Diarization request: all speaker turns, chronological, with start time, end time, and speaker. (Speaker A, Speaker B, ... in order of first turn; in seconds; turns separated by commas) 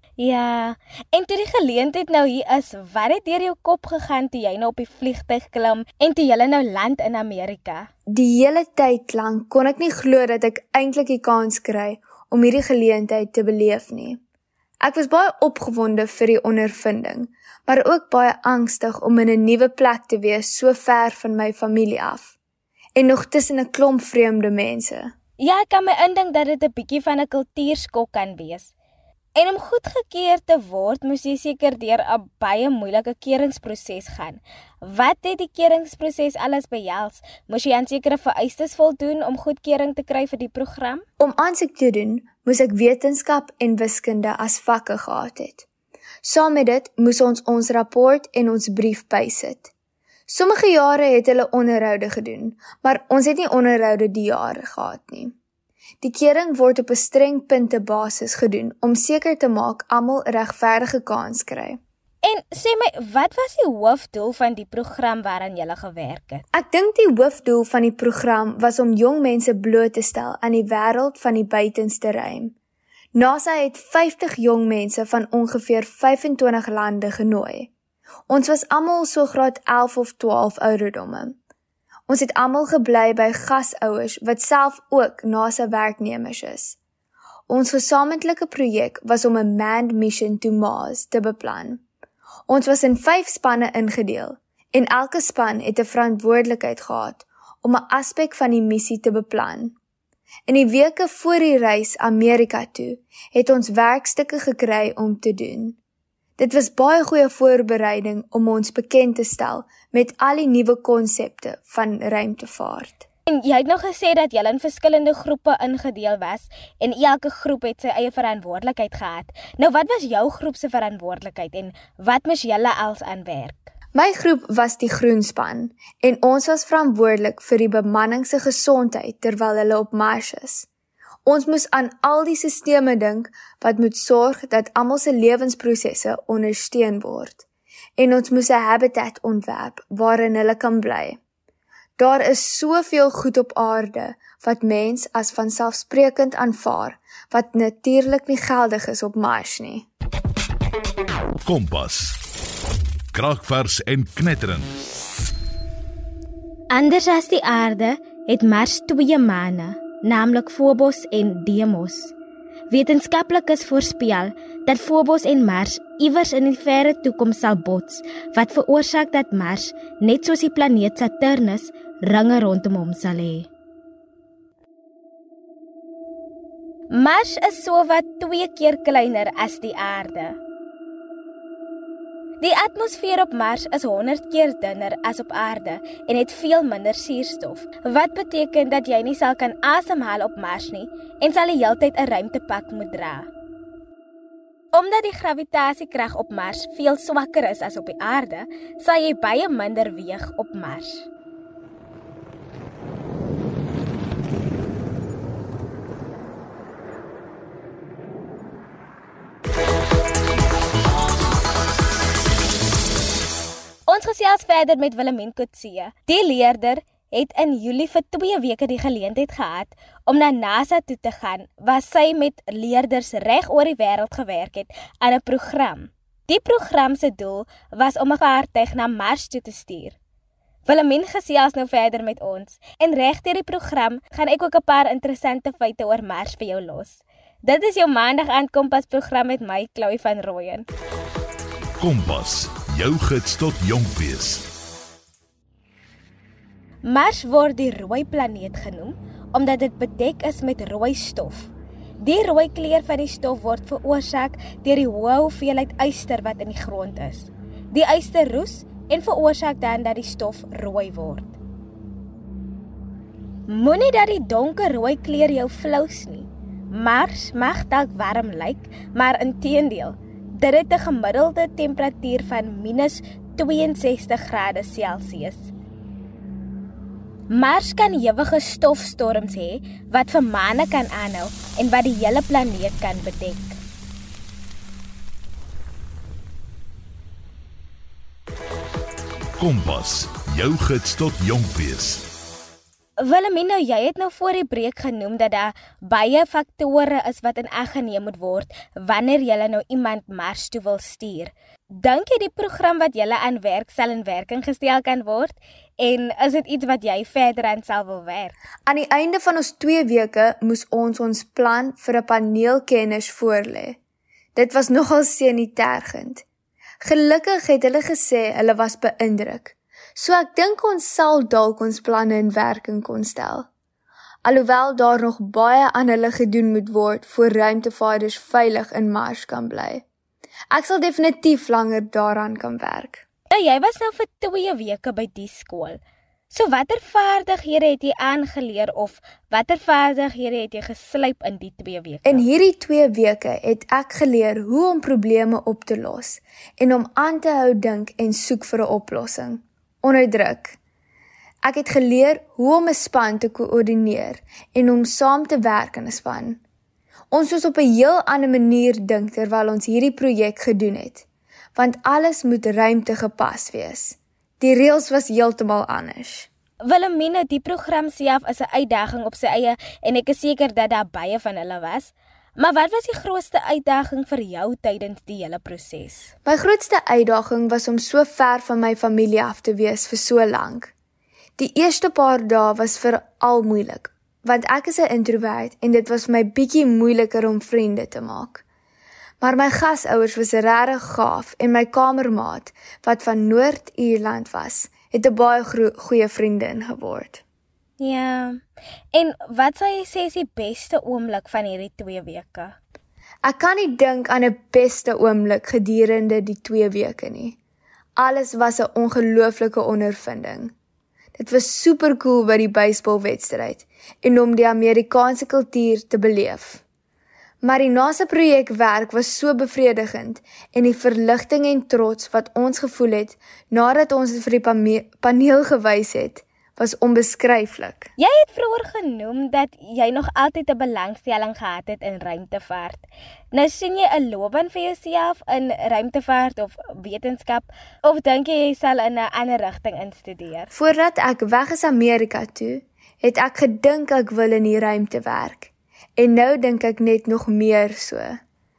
Speaker A: 0.2-7.9, Speaker B: 8.1-14.2, Speaker B: 14.8-22.4, Speaker B: 23.0-25.1, Speaker A: 25.4-28.7, Speaker A: 29.4-41.0, Speaker B: 41.2-45.7, Speaker B: 46.2-49.7, Speaker B: 50.3-55.4, Speaker B: 56.0-61.8, Speaker A: 62.2-66.4, Speaker B: 66.5-72.6, Speaker B: 73.1-77.7, Speaker B: 78.3-81.4, Speaker B: 82.1-86.8, Speaker B: 87.5-91.8, Speaker B: 92.5-99.8, Speaker B: 100.5-105.8, Speaker B: 106.4-113.1, Speaker A: 113.3-123.7, Speaker B: 124.0-130.7, Speaker B: 131.2-137.4, Speaker B: 138.0-141.2, Speaker B: 142.0-149.9, Speaker C: 151.5-152.2, Speaker C: 153.1-154.7, Speaker A: 156.7-162.2, Speaker A: 162.7-173.5, Speaker A: 176.9-180.4, Speaker A: 182.4-193.3, Speaker A: 194.7-201.1, Speaker A: 213.9-230.0, Speaker A: 230.7-240.7, Speaker C: 241.8-244.4, Speaker A: 246.9-261.4, Speaker A: 263.5-275.5, Speaker A: 277.3-283.6, Speaker C: 289.4-292.0, Speaker A: 293.0-308.3, Speaker B: 308.7-313.8, Speaker B: 314.4-316.2, Speaker B: 316.8-323.5, Speaker B: 324.2-329.8, Speaker B: 330.5-333.1, Speaker A: 333.3-335.8, Speaker A: 336.3-342.2, Speaker B: 342.1-350.6, Speaker B: 351.4-356.4, Speaker B: 357.1-366.3, Speaker A: 366.6-376.1, Speaker B: 376.2-380.7, Speaker B: 381.4-388.4, Speaker B: 389.2-397.2, Speaker A: 397.8-398.4, Speaker A: 398.9-402.6, Speaker B: 403.2-407.4, Speaker B: 408.0-410.5, Speaker B: 411.2-416.6, Speaker B: 417.4-427.9, Speaker A: 428.0-440.5, Speaker B: 440.5-448.2